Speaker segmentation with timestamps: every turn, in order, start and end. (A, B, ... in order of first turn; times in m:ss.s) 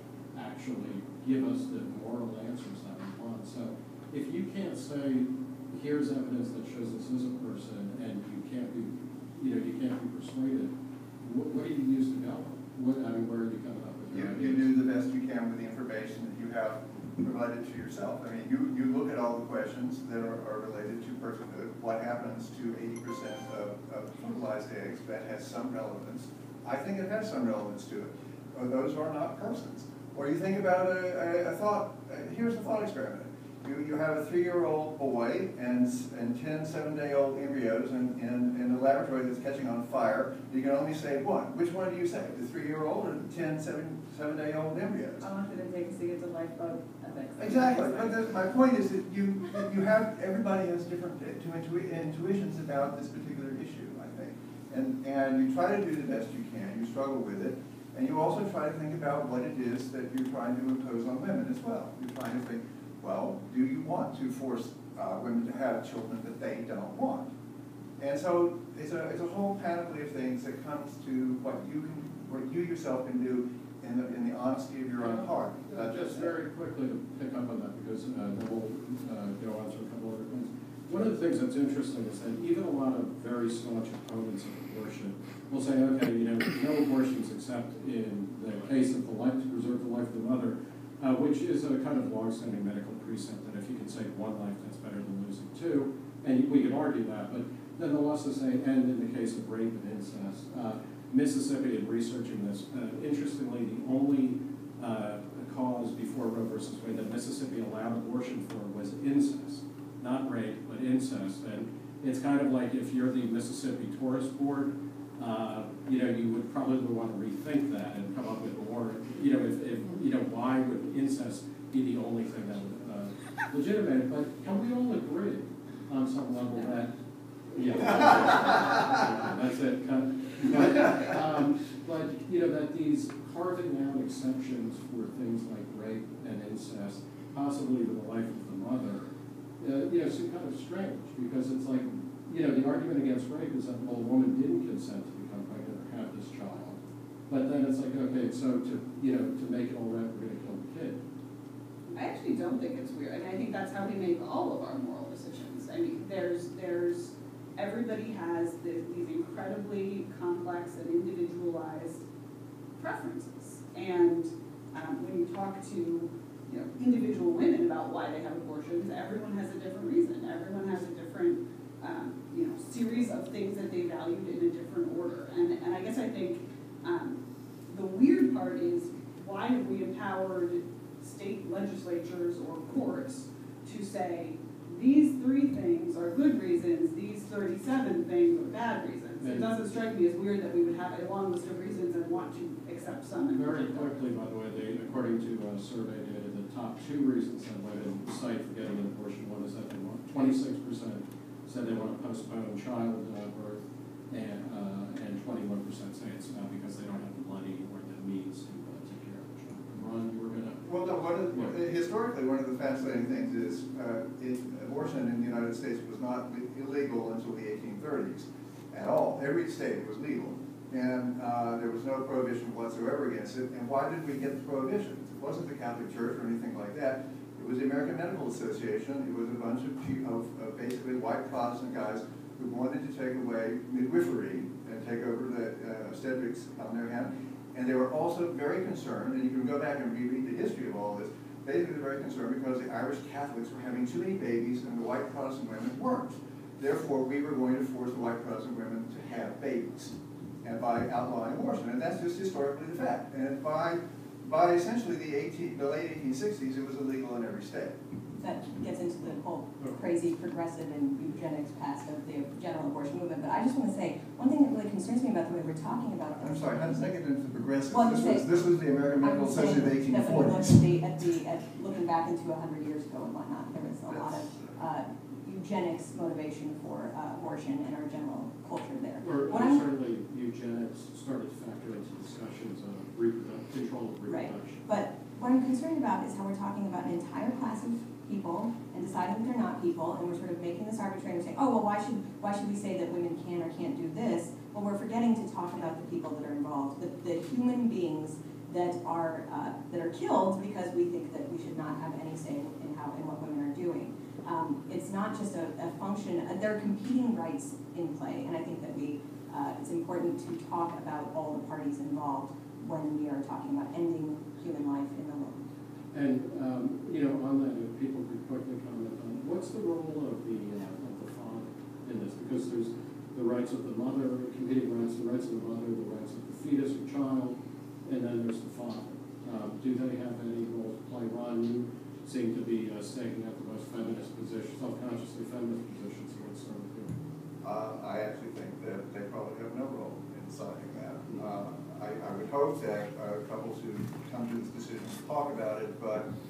0:00.3-0:14.7 A
0:14.1-0:45.3 B
0:45.2-0:48.2 C
0:47.4-1:07.3 B
1:08.0-1:16.3 B
1:15.0-2:06.9 A
2:07.5-2:19.1 A
2:19.6-2:31.0 A
2:31.9-2:42.0 C
2:42.8-3:14.0 C
3:09.2-3:09.5 A
3:13.3-3:30.7 A
3:30.6-4:17.7 B
4:18.2-4:26.9 D
4:26.2-4:30.6 B
4:27.7-4:28.3 D
4:29.0-4:39.6 D
4:33.9-4:34.6 B
4:39.0-4:44.7 A
4:44.1-5:15.4 D
5:15.9-5:37.0 A
5:37.4-5:46.1 B